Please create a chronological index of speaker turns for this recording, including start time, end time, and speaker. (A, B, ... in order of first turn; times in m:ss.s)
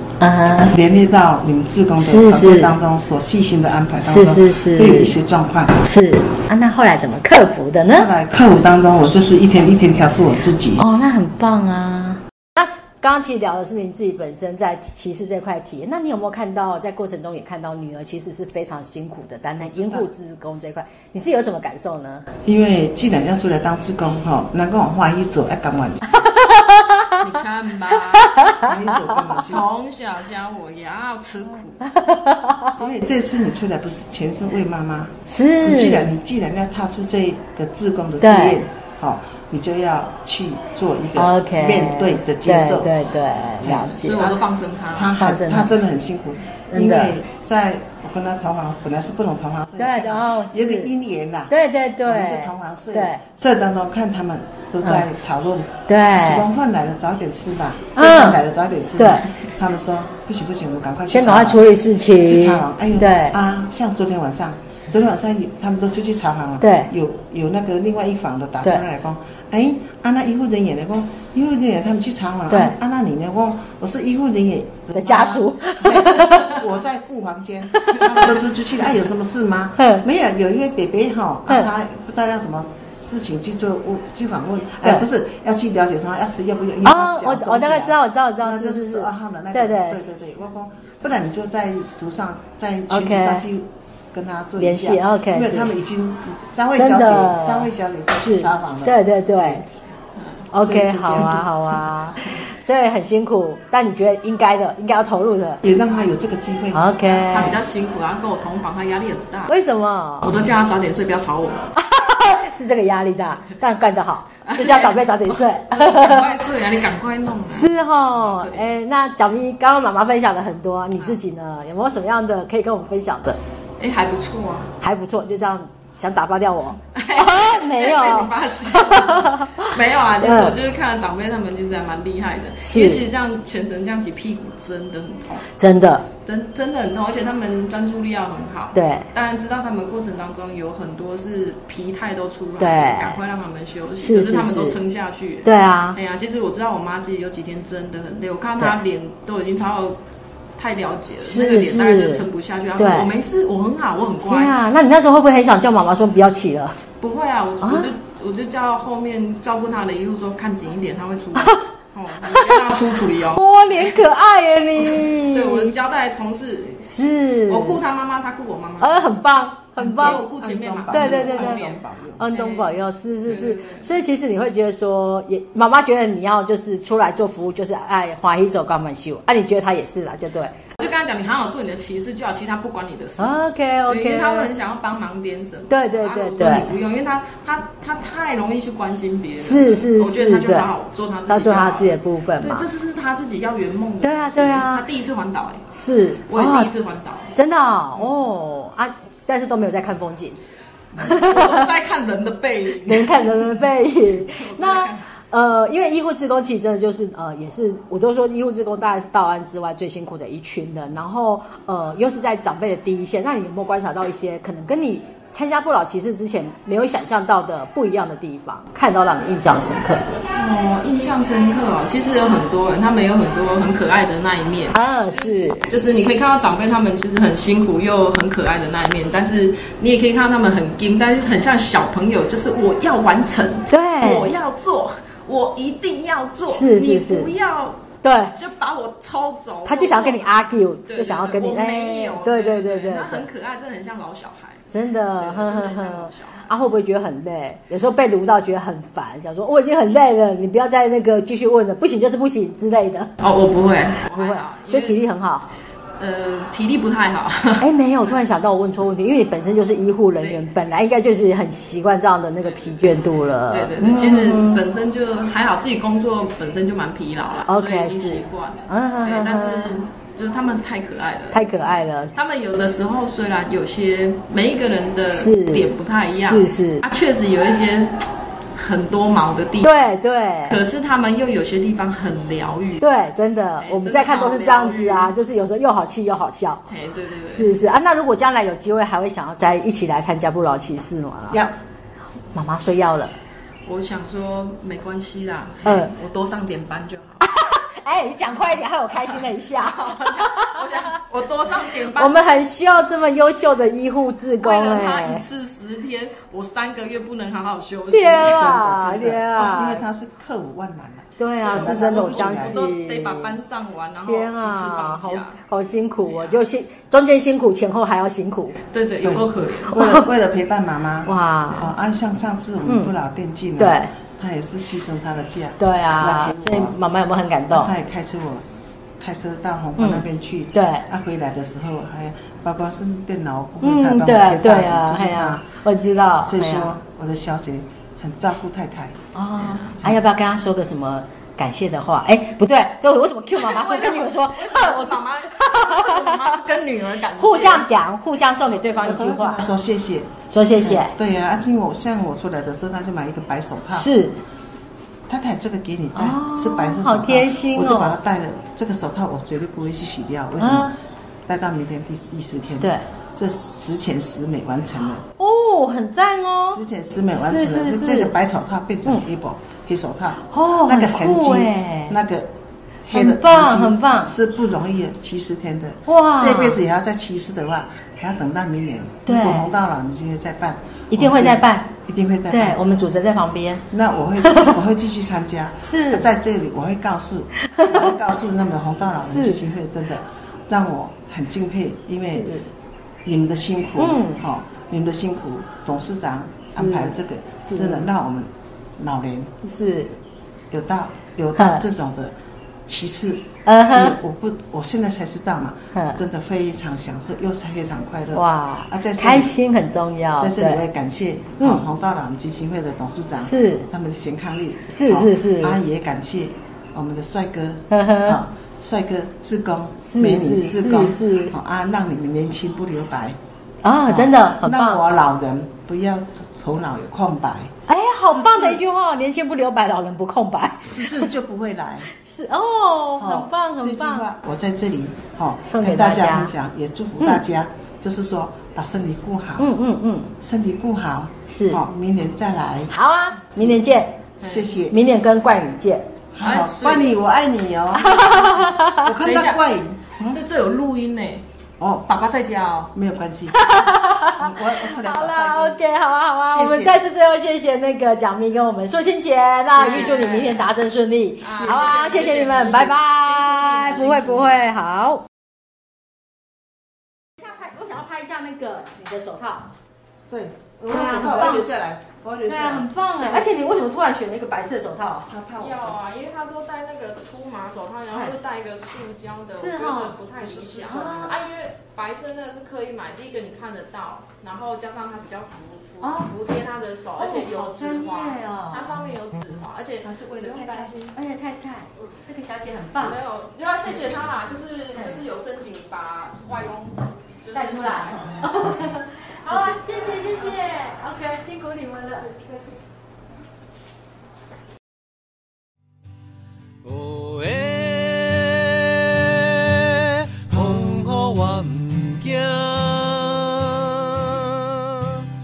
0:00.2-0:00.7 A
0:00.7-0:05.8 B
0:02.0-0:02.7 A
0:04.0-0:05.2 A
0:05.8-0:08.1 A
0:07.9-0:10.9 B
0:10.8-0:22.3 A
0:19.6-0:20.1 B
0:22.4-0:26.3 B
0:26.2-0:27.1 A
0:27.2-0:28.5 C
0:28.1-0:29.2 A
0:28.6-0:29.7 B
0:29.4-0:31.8 C
0:31.9-0:32.8 A
0:32.8-0:42.9 B
0:35.3-0:36.1 A
0:38.2-0:38.6 A
0:41.1-0:44.3 A
0:43.6-0:44.4 B
0:44.0-0:45.1 C
0:44.9-0:51.5 B
0:45.2-0:45.7 A
0:46.7-0:47.2 A
0:49.8-0:50.9 A
0:51.5-0:53.2 A
0:52.0-1:01.6 B
0:55.9-0:56.4 A
0:58.0-0:58.4 A
0:59.0-0:59.3 A
1:01.1-1:03.4 A
1:02.2-1:39.7 B
1:06.6-1:06.9 A
1:12.5-1:12.8 A
1:14.9-1:16.5 A
1:19.8-1:20.1 A
1:26.8-1:30.0 A
1:32.9-1:33.5 A
1:34.6-1:35.7 A
1:36.8-1:39.6 A
1:40.2-1:40.5 C
1:40.5-1:45.6 A
1:40.6-1:41.5 B
1:41.7-1:42.4 C
1:45.6-1:47.6 B
1:46.7-1:47.5 A
1:47.3-1:49.6 C
1:49.5-1:50.3 A
1:50.2-1:51.7 C
1:51.8-1:56.4 A
1:54.4-1:58.7 C
1:57.5-2:03.4 A
2:03.8-2:04.7 C
2:04.8-2:10.6 A
2:06.9-2:15.4 C
2:12.6-2:13.0 A
2:15.6-2:16.0 A
2:16.2-2:30.0 C
2:18.7-2:19.1 A
2:22.6-2:23.2 A
2:24.0-2:24.8 A
2:25.4-2:26.0 A
2:30.6-2:34.6 C
2:31.2-2:32.2 A
2:32.8-2:33.1 A
2:34.2-2:36.8 A
2:37.0-2:44.0 C
2:37.6-2:37.9 A
2:41.4-2:41.6 A
2:42.2-2:42.7 A
2:43.3-2:45.7 A
2:44.7-2:49.2 C
2:46.8-2:47.8 A
2:48.8-2:50.2 A
2:49.8-2:52.3 B
2:50.0-2:51.8 C
2:50.9-2:51.6 A
2:52.2-3:00.7 A
2:52.3-2:53.9 C
3:00.8-3:15.6 C
3:03.2-3:04.5 A
3:05.7-3:06.7 A
3:09.4-3:10.7 A
3:11.3-3:12.6 A
3:14.0-3:14.8 A
3:15.7-3:16.7 A
3:16.3-3:17.3 C
3:17.3-3:20.4 A
3:20.9-3:23.7 C
3:21.0-3:21.7 A
3:22.8-3:40.2 A
3:24.2-3:25.0 C
3:40.3-4:06.5 C
3:44.7-3:45.7 A
3:53.7-3:54.3 A
3:56.5-3:57.3 A
3:58.0-3:58.3 A
3:59.6-4:03.3 A
4:04.7-4:13.1 A
4:13.2-4:15.0 C
4:14.1-4:15.5 A
4:16.0-4:17.7 C
4:17.6-4:24.6 A
4:23.5-4:31.4 C
4:27.5-4:29.8 A
4:31.3-4:32.1 A
4:32.1-4:39.7 C
4:35.0-4:36.8 A
4:39.6-4:40.6 A
4:40.5-4:42.8 C
4:42.8-4:46.6 A
4:43.6-4:45.1 C
4:46.7-4:47.5 C
4:47.3-4:51.4 A
4:52.3-4:53.1 A
4:53.6-4:57.2 C
4:55.6-4:55.9 A
4:57.2-5:00.8 A
4:59.0-5:02.2 C
5:01.9-5:05.2 A
5:04.4-5:08.5 C
5:07.9-5:09.8 A
5:08.1-5:12.6 B
5:11.2-5:13.4 A
5:11.4-5:15.4 C
5:14.0-5:18.6 A
5:18.6-5:19.7 C
5:19.0-5:26.7 B
5:19.7-5:20.0 A
5:21.0-5:21.7 A
5:22.6-5:22.9 A
5:23.6-5:23.9 A
5:25.6-5:27.7 A
5:27.5-5:35.4 B
5:29.8-5:30.9 A
5:33.6-5:36.7 A
5:36.2-5:39.0 B
5:39.1-5:46.3 A
5:43.3-5:47.6 C
5:47.2-5:49.4 A
5:48.8-5:53.9 B
5:50.3-5:50.9 A
5:53.7-5:54.2 A
5:55.1-6:00.7 B
5:55.9-5:58.0 A
6:00.4-6:00.7 A
6:01.3-6:05.0 B
6:02.6-6:02.9 A
6:05.2-6:08.1 A
6:06.4-6:12.3 B
6:10.3-6:12.0 A
6:12.8-6:22.6 B
6:12.9-6:14.1 A
6:15.8-6:16.6 A
6:19.0-6:19.5 A
6:20.9-6:21.7 A
6:22.3-6:23.6 A
6:23.7-6:32.3 B
6:24.2-6:24.5 A
6:25.6-6:26.1 A
6:27.4-6:27.9 A
6:29.0-6:29.4 A
6:32.0-6:32.5 A
6:33.0-6:39.3 B
6:33.8-6:34.2 A
6:36.5-6:37.9 A
6:39.4-6:40.0 A
6:40.5-6:42.1 B
6:41.4-6:41.6 A
6:42.6-6:49.3 B
6:43.4-6:44.0 A
6:45.7-6:46.0 A
6:48.1-6:50.6 A
6:50.2-7:03.2 B
6:53.2-6:53.7 A
6:54.7-6:55.6 A
6:57.7-6:58.2 A
6:59.8-7:01.3 A
7:03.6-7:04.8 A
7:03.9-7:07.5 B
7:07.7-7:11.1 A
7:08.0-7:08.6 B
7:10.7-7:11.9 B
7:11.9-7:14.1 A
7:13.0-7:19.5 B
7:15.4-7:16.3 A
7:19.4-7:20.1 A
7:20.2-7:22.7 B
7:21.3-7:21.6 A
7:22.7-7:24.0 A
7:24.2-7:24.5 C
7:24.2-7:24.8 B
7:24.7-7:25.9 A
7:26.1-7:29.8 B
7:26.2-7:26.9 C
7:27.7-7:28.9 A
7:29.0-7:29.4 C
7:30.0-7:31.2 C
7:31.6-7:31.9 B
7:31.9-7:32.7 C
7:32.7-7:35.6 B
7:33.3-7:45.1 A
7:36.3-7:36.8 B
7:39.5-7:40.5 C
7:41.2-7:44.4 C
7:47.2-7:49.5 A
7:50.1-7:53.2 B
7:50.6-7:51.5 A
7:52.2-7:55.1 A
7:55.1-7:55.8 B
7:55.4-8:10.9 C
7:57.9-7:58.2 A
7:59.3-8:00.0 A
8:00.2-8:00.7 B
8:00.6-8:01.2 A
8:05.8-8:06.1 A
8:07.0-8:08.7 A
8:09.8-8:10.9 B
8:10.9-8:13.0 A
8:12.8-8:18.3 C
8:14.7-8:15.0 A
8:17.3-8:22.5 A
8:19.2-8:19.6 C
8:26.6-8:35.0 D